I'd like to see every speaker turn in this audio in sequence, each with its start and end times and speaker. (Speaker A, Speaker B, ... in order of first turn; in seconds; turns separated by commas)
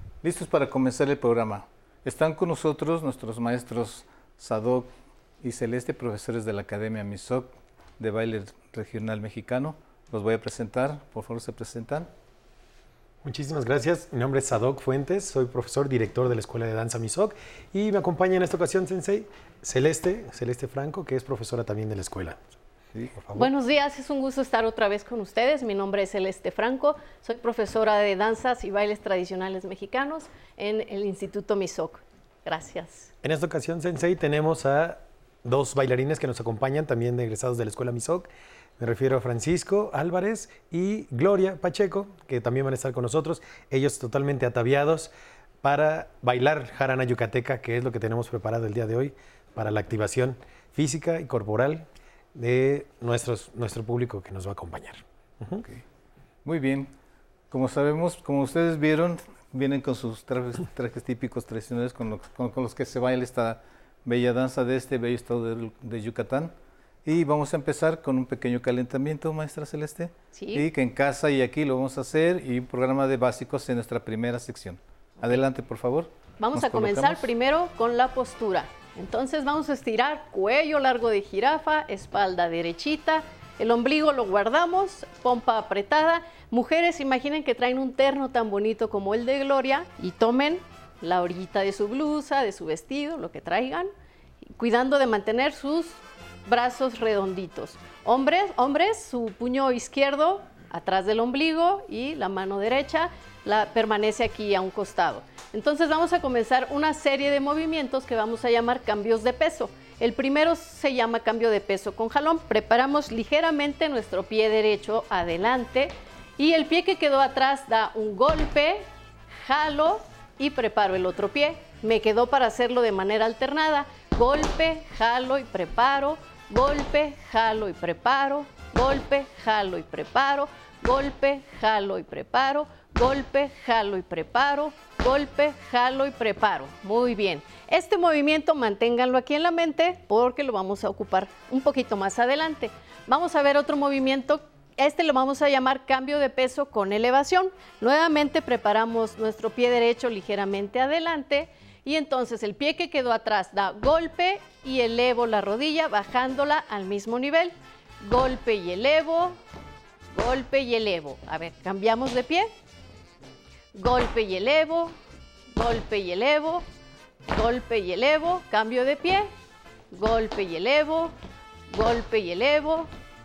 Speaker A: 0.2-4.9, Speaker A: 5.4-12.1, Speaker B: 13.2-22.4, Speaker A: 22.9-23.5, Speaker C: 23.3-33.1, Speaker B: 33.2-38.3, Speaker B: 38.8-45.1, Speaker B: 45.6-55.6, Speaker A: 56.4-56.9, Speaker A: 57.5-66.5, Speaker A: 67.0-77.3, Speaker C: 70.3-70.7, Speaker C: 76.4-93.9, Speaker C: 94.6-118.8, Speaker C: 119.4-159.4, Speaker C: 160.1-162.5, Speaker C: 163.7-164.9, Speaker C: 165.5-166.6, Speaker C: 167.3-169.3, Speaker C: 169.9-171.1, Speaker C: 171.7-172.9